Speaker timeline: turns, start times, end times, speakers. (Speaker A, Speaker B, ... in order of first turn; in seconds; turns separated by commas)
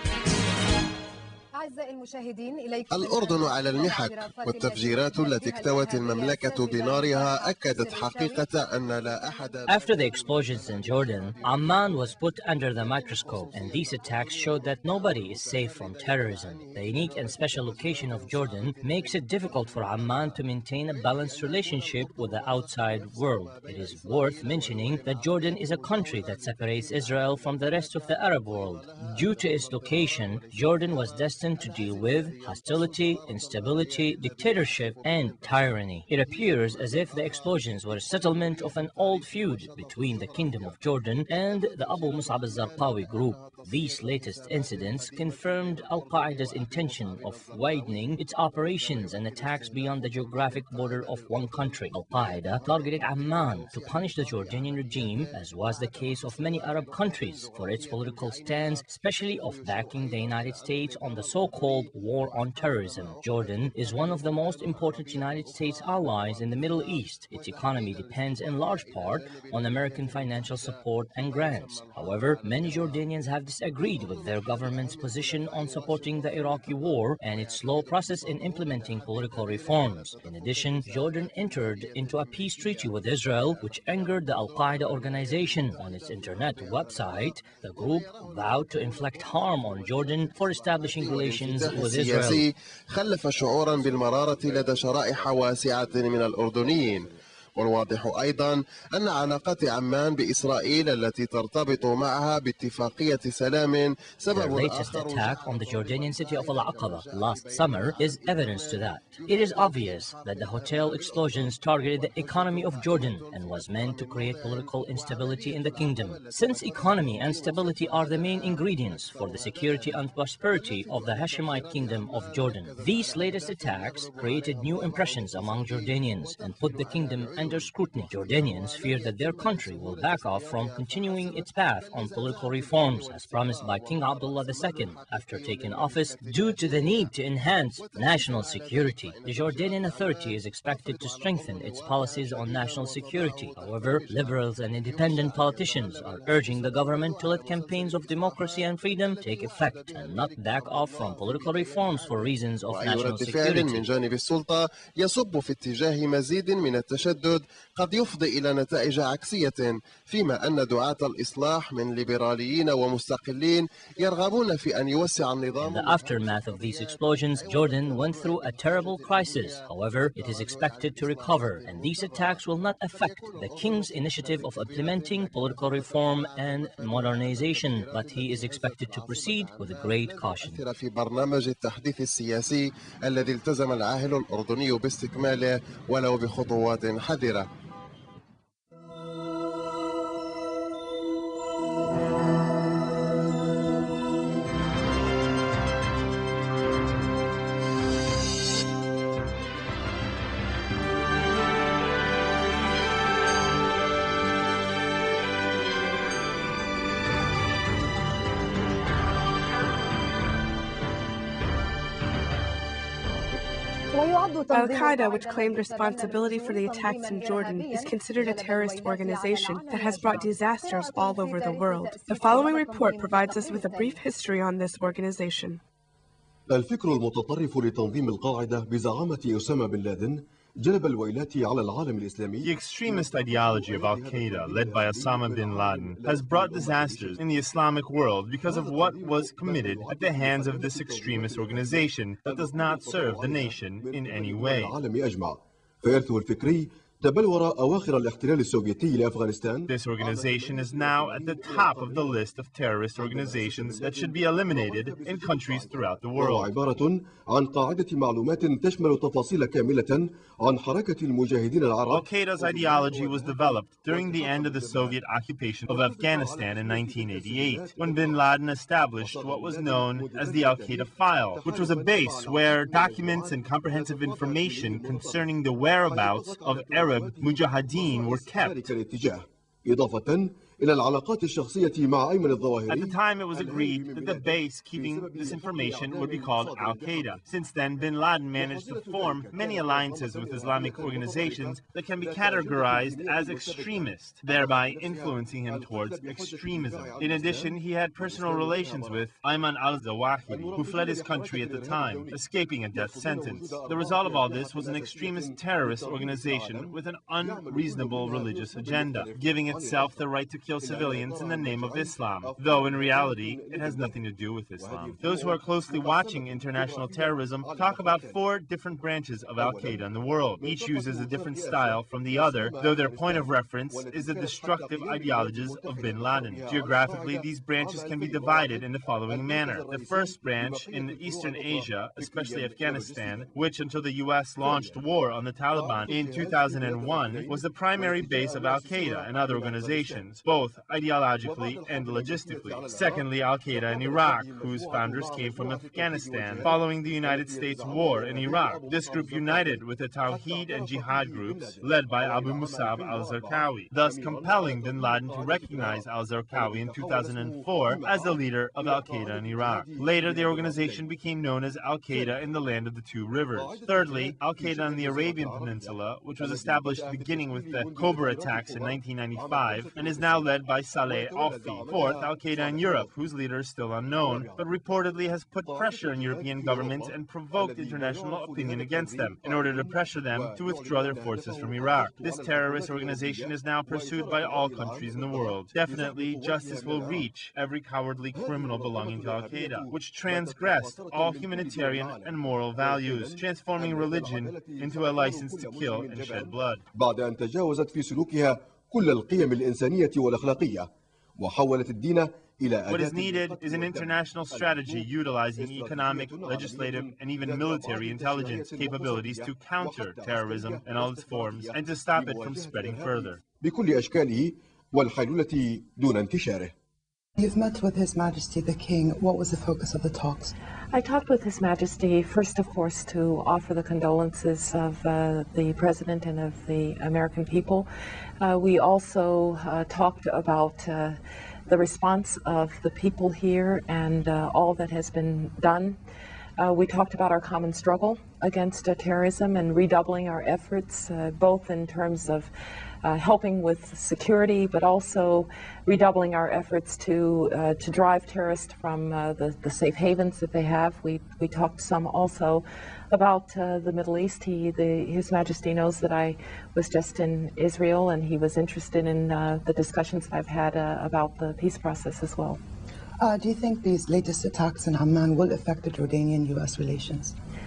Speaker A: 2.9-9.7, Speaker B: 9.7-92.4, Speaker A: 91.2-105.1, Speaker B: 104.3-153.8, Speaker A: 152.7-165.8, Speaker B: 165.6-180.6, Speaker A: 180.5-187.5, Speaker C: 214.5-225.6, Speaker D: 226.5-237.2, Speaker E: 232.4-244.7, Speaker D: 238.4-252.3, Speaker E: 249.7-256.6, Speaker D: 252.9-265.0, Speaker E: 261.9-278.7, Speaker D: 265.7-268.3, Speaker D: 269.0-287.2, Speaker E: 282.7-396.6, Speaker D: 288.3-299.1, Speaker D: 300.3-310.1, Speaker D: 310.6-314.0, Speaker D: 314.5-318.2, Speaker D: 319.3-333.4, Speaker D: 334.4-334.8, Speaker D: 335.5-340.1, Speaker D: 341.2-360.9, Speaker D: 361.9-362.2, Speaker D: 363.3-372.9, Speaker D: 373.8-374.4, Speaker D: 375.4-387.1, Speaker D: 388.1-416.5, Speaker E: 402.7-413.2, Speaker F: 417.2-420.3, Speaker G: 420.7-427.7, Speaker G: 428.2-435.8, Speaker G: 436.4-442.3, Speaker G: 442.8-462.4, Speaker F: 463.0-467.1